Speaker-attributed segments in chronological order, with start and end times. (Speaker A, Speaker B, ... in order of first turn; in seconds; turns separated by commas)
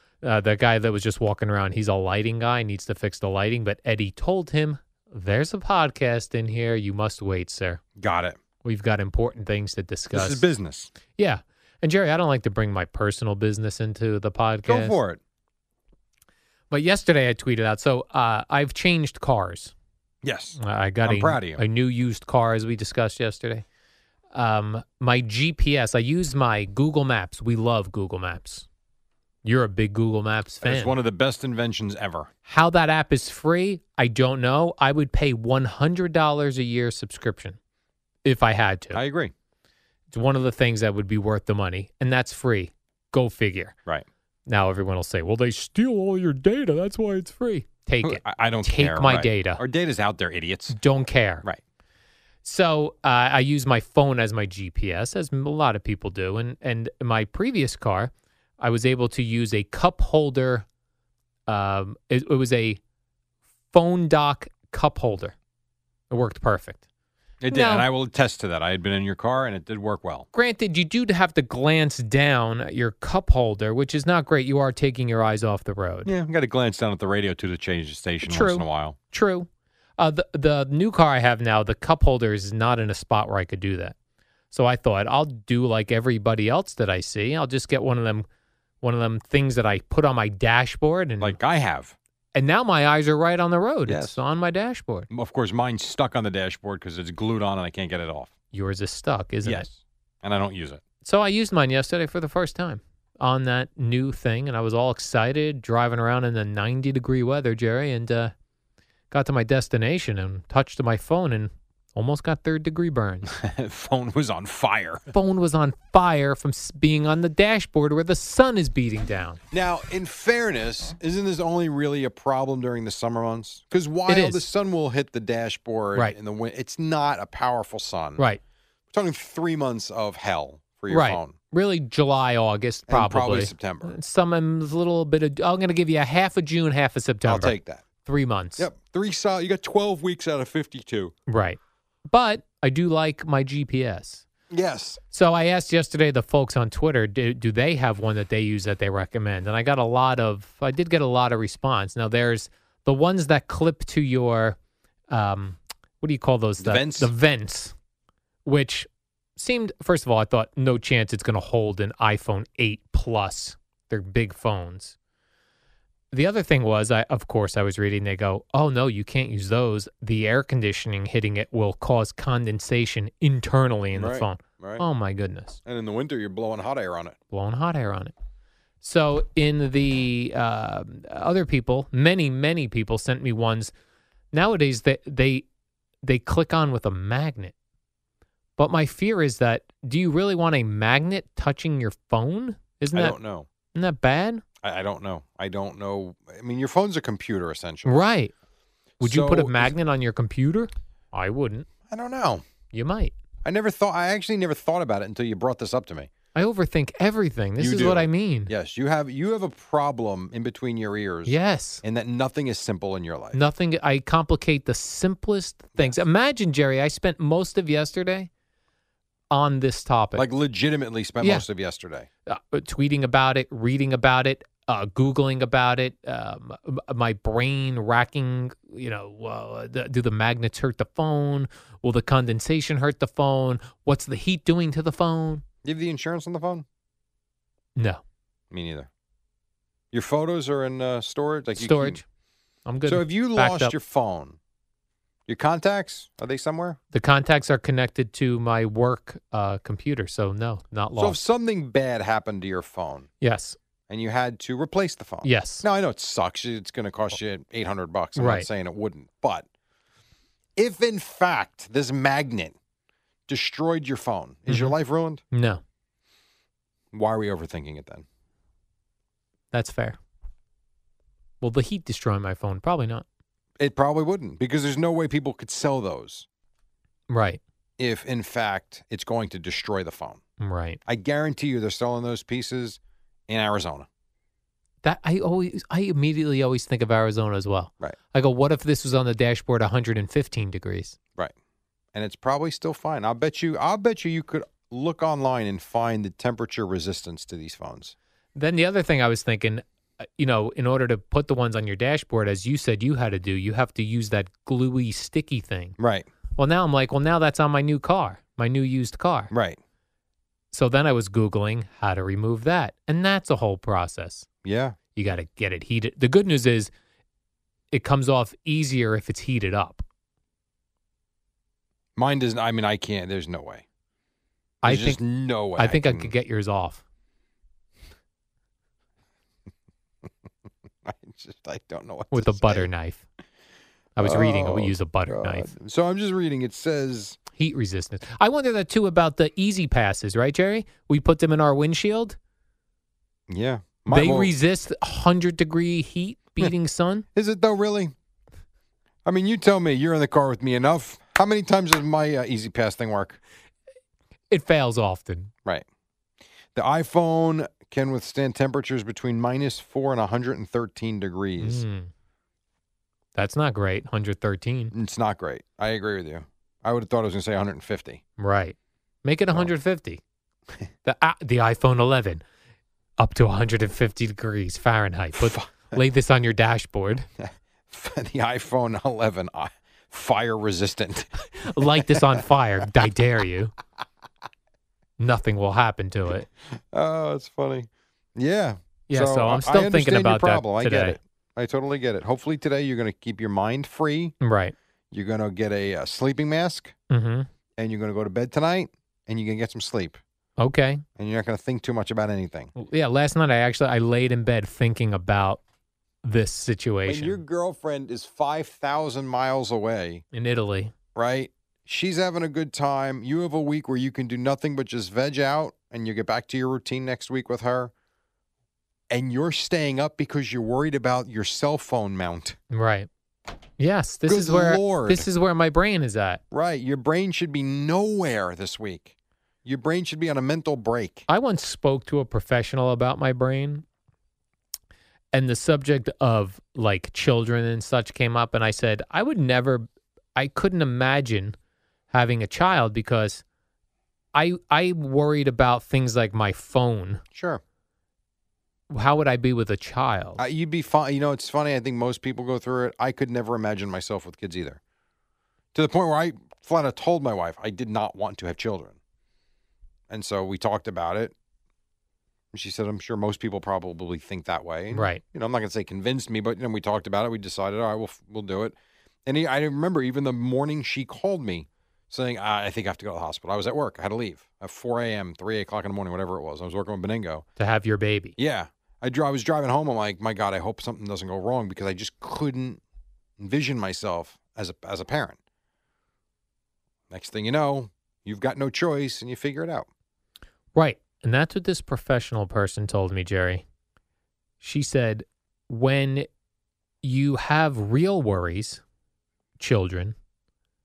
Speaker A: 0.2-7.8, Speaker B: 8.0-8.4, Speaker A: 8.6-10.4, Speaker B: 10.1-10.9, Speaker A: 11.2-14.9, Speaker B: 14.7-15.2, Speaker A: 16.7-19.7, Speaker B: 20.2-21.6, Speaker A: 20.6-23.6, Speaker A: 24.3-28.7, Speaker A: 29.4-31.0, Speaker B: 30.6-32.3, Speaker A: 32.5-37.6, Speaker A: 38.2-39.0, Speaker B: 38.9-39.3, Speaker A: 40.1-43.8, Speaker A: 44.5-49.6, Speaker B: 48.0-50.8, Speaker A: 50.7-51.5, Speaker A: 52.4-60.6, Speaker A: 61.5-62.8, Speaker A: 63.7-65.3, Speaker A: 66.1-66.8, Speaker B: 67.4-70.3, Speaker A: 67.5-67.9, Speaker A: 70.3-76.1, Speaker B: 76.0-79.0, Speaker A: 78.3-79.5, Speaker A: 80.0-84.0, Speaker A: 84.5-88.3, Speaker A: 88.8-91.4, Speaker B: 91.2-92.0, Speaker A: 92.3-95.1, Speaker B: 93.9-94.2, Speaker B: 95.1-98.3, Speaker A: 98.5-99.7, Speaker B: 99.4-100.8, Speaker A: 101.0-108.3, Speaker A: 109.1-113.3, Speaker B: 113.3-115.1, Speaker A: 115.1-119.4, Speaker B: 119.5-128.2, Speaker A: 124.1-124.4, Speaker B: 128.9-131.3, Speaker A: 130.9-138.7, Speaker B: 132.9-133.9, Speaker B: 137.3-137.8, Speaker B: 138.6-141.1, Speaker A: 141.3-144.2, Speaker B: 144.5-145.0, Speaker A: 145.1-154.6, Speaker A: 155.1-157.7, Speaker B: 156.6-157.1, Speaker A: 158.5-164.9, Speaker A: 166.1-175.6, Speaker B: 173.9-174.8, Speaker B: 175.7-177.2, Speaker A: 177.3-178.1, Speaker A: 178.8-183.7, Speaker A: 184.3-185.4, Speaker A: 186.0-187.5, Speaker A: 188.6-193.2, Speaker B: 192.9-193.5, Speaker A: 193.7-194.4, Speaker B: 194.6-198.0, Speaker A: 197.8-198.3, Speaker B: 199.0-199.7, Speaker A: 199.0-201.7, Speaker B: 201.9-202.4, Speaker A: 202.7-203.1, Speaker B: 203.4-206.1, Speaker A: 206.3-208.5, Speaker B: 207.6-213.4, Speaker A: 211.3-211.8, Speaker A: 213.3-218.3, Speaker A: 219.3-220.3, Speaker B: 220.2-222.1, Speaker A: 222.3-235.4, Speaker B: 235.6-236.7, Speaker A: 237.8-238.0, Speaker B: 238.5-238.9, Speaker B: 239.9-242.0, Speaker A: 241.6-242.0, Speaker A: 242.7-243.8, Speaker B: 242.9-244.4, Speaker B: 245.3-246.8, Speaker A: 246.9-251.2, Speaker B: 251.0-253.1, Speaker A: 253.2-253.6, Speaker B: 253.9-259.4, Speaker A: 255.2-255.7, Speaker A: 258.2-258.5, Speaker B: 260.6-262.6, Speaker B: 263.3-265.2, Speaker A: 264.5-264.8, Speaker A: 265.3-265.6, Speaker B: 266.9-268.1, Speaker A: 269.5-270.0, Speaker A: 271.4-273.1, Speaker B: 273.6-276.3, Speaker A: 277.1-277.4, Speaker B: 277.8-280.2, Speaker A: 280.4-280.8, Speaker B: 280.9-283.9, Speaker A: 284.8-291.0, Speaker B: 291.9-297.9, Speaker A: 298.4-305.8, Speaker B: 305.8-306.1, Speaker A: 306.4-309.3, Speaker B: 309.3-309.6, Speaker A: 310.5-314.3, Speaker B: 314.4-314.8, Speaker A: 314.9-316.7, Speaker A: 317.7-319.8, Speaker B: 322.0-323.6, Speaker A: 324.6-325.0, Speaker B: 324.6-326.1, Speaker A: 325.6-326.8, Speaker B: 330.9-332.7, Speaker A: 332.1-333.0, Speaker A: 334.0-335.5, Speaker B: 334.0-337.2, Speaker A: 337.4-342.2, Speaker B: 343.3-344.3, Speaker A: 343.9-347.1, Speaker B: 347.1-347.9, Speaker B: 349.1-353.2, Speaker A: 354.3-355.3, Speaker B: 356.6-361.6, Speaker A: 361.4-361.9, Speaker A: 363.1-364.7, Speaker B: 364.7-368.0, Speaker A: 368.2-370.0, Speaker A: 370.9-372.2, Speaker A: 373.0-377.1, Speaker B: 375.2-375.8, Speaker B: 377.2-381.1, Speaker A: 381.4-383.5, Speaker B: 381.8-382.2, Speaker A: 385.0-386.3, Speaker B: 386.7-394.1, Speaker A: 388.9-391.0, Speaker A: 394.2-394.5, Speaker B: 394.9-396.8, Speaker A: 396.9-397.3, Speaker B: 397.6-400.0, Speaker A: 400.4-400.8, Speaker B: 401.0-402.5, Speaker A: 402.6-405.4, Speaker A: 406.0-407.2, Speaker B: 406.9-410.0, Speaker A: 410.1-410.7, Speaker B: 410.9-417.7, Speaker B: 418.9-422.4, Speaker A: 422.5-422.9, Speaker A: 423.6-426.2, Speaker B: 424.1-425.1, Speaker B: 426.3-428.9, Speaker B: 429.4-431.1, Speaker A: 431.1-433.6, Speaker A: 435.1-441.4, Speaker A: 441.9-443.2, Speaker A: 444.1-447.0, Speaker B: 447.1-447.4, Speaker A: 448.7-450.2, Speaker B: 450.2-454.6, Speaker B: 455.5-458.8, Speaker B: 459.9-461.1, Speaker B: 462.3-468.6, Speaker A: 464.7-465.0, Speaker B: 469.1-477.2, Speaker A: 477.4-478.1, Speaker B: 478.2-482.6, Speaker B: 483.2-485.2, Speaker B: 486.9-489.7, Speaker A: 490.6-493.4, Speaker A: 494.4-496.1, Speaker A: 496.8-498.6, Speaker A: 499.4-499.9